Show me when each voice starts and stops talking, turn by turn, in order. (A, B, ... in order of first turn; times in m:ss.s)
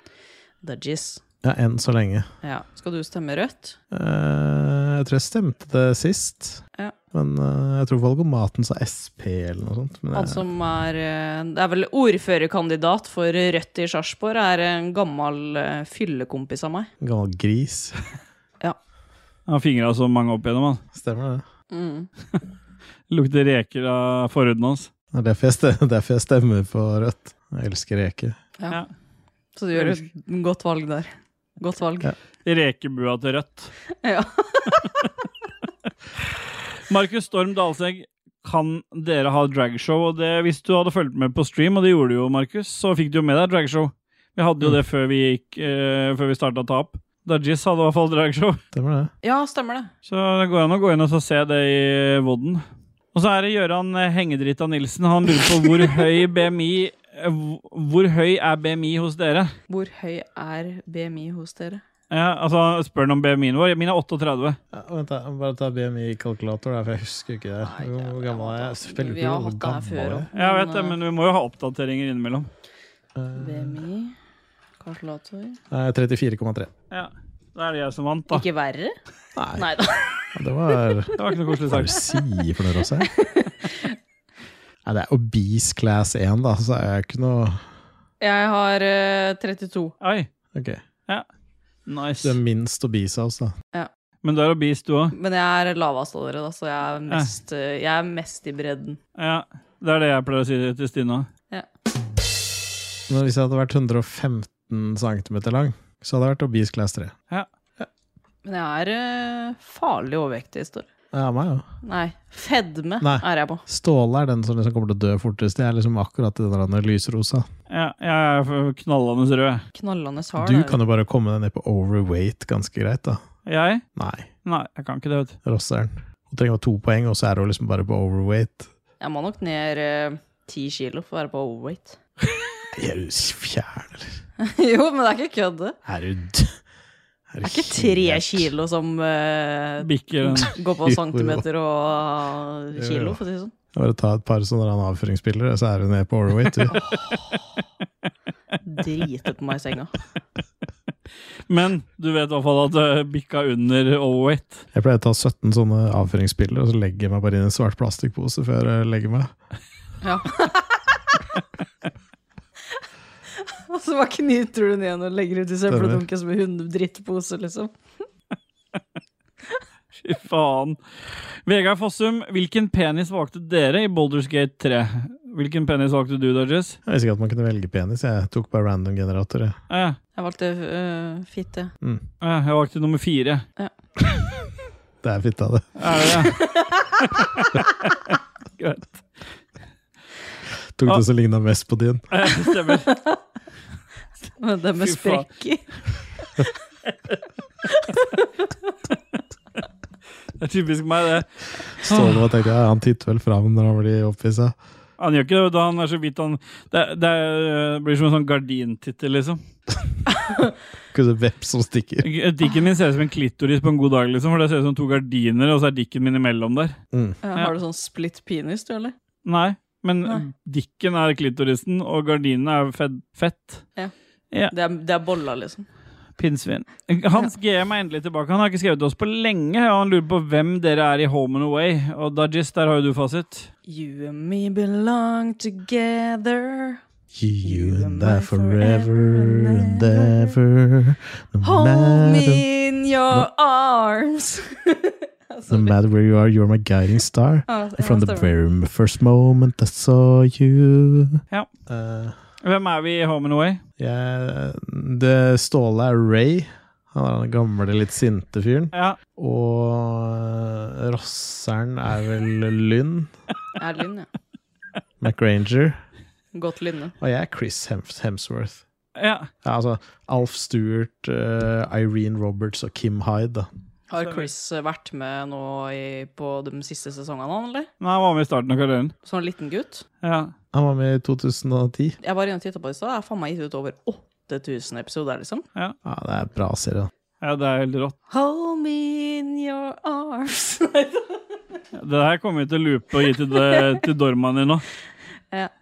0:00.6-0:01.2 A
0:01.4-0:02.3 B
0:02.4-0:03.8 A
0:03.9-0:10.5 B
0:10.1-0:16.9 A
0:17.0-0:18.0 B
0:19.5-0:20.8 C
0:20.9-0:21.4 B
0:21.7-0:22.1 A
0:23.1-0:24.9 C
0:25.1-0:28.4 B
0:29.6-0:32.1 A
0:32.4-0:33.7 C
0:34.0-0:34.9 A
0:36.9-0:48.6 C
0:48.7-0:49.1 B
0:49.2-0:49.9 A
0:50.1-0:52.6 C
0:53.1-0:59.6 C
0:59.7-1:01.8 A
1:02.1-1:04.6 C
1:04.7-1:10.3 B
1:07.6-1:11.0 A
1:10.4-1:12.5 C
1:13.2-1:13.8 B
1:13.4-1:14.1 A
1:14.8-1:15.6 A
1:15.7-1:16.7 B
1:16.9-1:18.4 C
1:18.3-1:19.0 A
1:19.4-1:19.7 B
1:19.6-1:20.3 A
1:20.3-1:23.1 B
1:21.2-1:22.0 C
1:23.1-1:24.0 A
1:24.8-1:27.6 B
1:28.2-1:30.0 A
1:30.0-1:30.3 C
1:30.5-1:30.8 B
1:31.9-1:32.4 C
1:32.2-1:33.6 B
1:34.2-1:35.1 C
1:35.1-1:39.0 A
1:39.2-1:41.3 C
1:43.1-1:47.1 B
1:48.4-1:50.9 A
1:51.1-1:51.7 B
1:51.8-1:53.6 A
1:53.0-1:57.5 B
1:57.7-1:59.6 C
1:59.7-2:00.8 A
2:00.4-2:03.2 B
2:03.4-2:03.8 C
2:04.0-2:04.3 B
2:04.4-2:05.4 C
2:05.4-2:08.7 B
2:09.0-2:12.0 A
2:12.7-2:14.1 B
2:14.4-2:15.8 A
2:15.9-2:16.6 B
2:17.3-2:18.5 B
2:17.4-2:23.5 A
2:19.8-2:20.5 C
2:20.8-2:21.4 B
2:22.8-2:23.2 B
2:23.7-2:26.8 B
2:26.7-2:27.4 A
2:28.6-2:29.9 A
2:31.5-2:34.6 C
2:34.7-2:39.3 B
2:40.0-2:40.8 A
2:43.4-2:47.7 A
2:45.7-2:46.0 B
2:50.0-2:56.8 C
2:56.9-2:59.6 B
2:59.7-3:00.0 C
3:00.1-3:01.7 A
3:02.2-3:03.4 C
3:05.0-3:05.8 B
3:05.8-3:06.4 C
3:06.3-3:07.0 A
3:07.2-3:09.0 C
3:10.8-3:12.1 B
3:12.1-3:12.9 C
3:12.8-3:13.2 A
3:14.4-3:15.7 A
3:14.8-3:15.3 C
3:17.7-3:18.5 A
3:20.4-3:22.2 C
3:21.8-3:24.6 B
3:25.0-3:29.4 C
3:30.1-3:30.5 A
3:30.9-3:32.1 B
3:32.0-3:36.8 C
3:36.9-3:37.2 B
3:37.2-3:38.9 A
3:39.2-3:43.7 C
3:44.5-3:45.7 A
3:46.2-3:53.5 C
3:53.7-3:56.8 A
3:57.1-4:02.4 B
3:57.4-4:00.4 A
4:01.4-4:05.8 A
4:05.5-4:12.2 B
4:07.5-4:08.3 A
4:12.4-4:13.6 C
4:13.8-4:23.1 B
4:18.7-4:19.0 C
4:23.6-4:24.1 A
4:25.0-4:25.8 B
4:26.3-4:26.9 A
4:27.0-4:28.6 B
4:29.0-4:29.3 C
4:29.4-4:33.5 B
4:33.9-4:37.7 A
4:34.0-4:34.3 C
4:37.8-4:38.9 C
4:39.0-4:39.8 A
4:40.0-4:40.3 C
4:40.5-4:42.0 B
4:42.0-4:45.4 A
4:45.8-4:46.9 B
4:47.2-4:48.0 C
4:48.1-4:51.2 A
4:51.7-4:54.6 C
4:53.3-4:53.6 A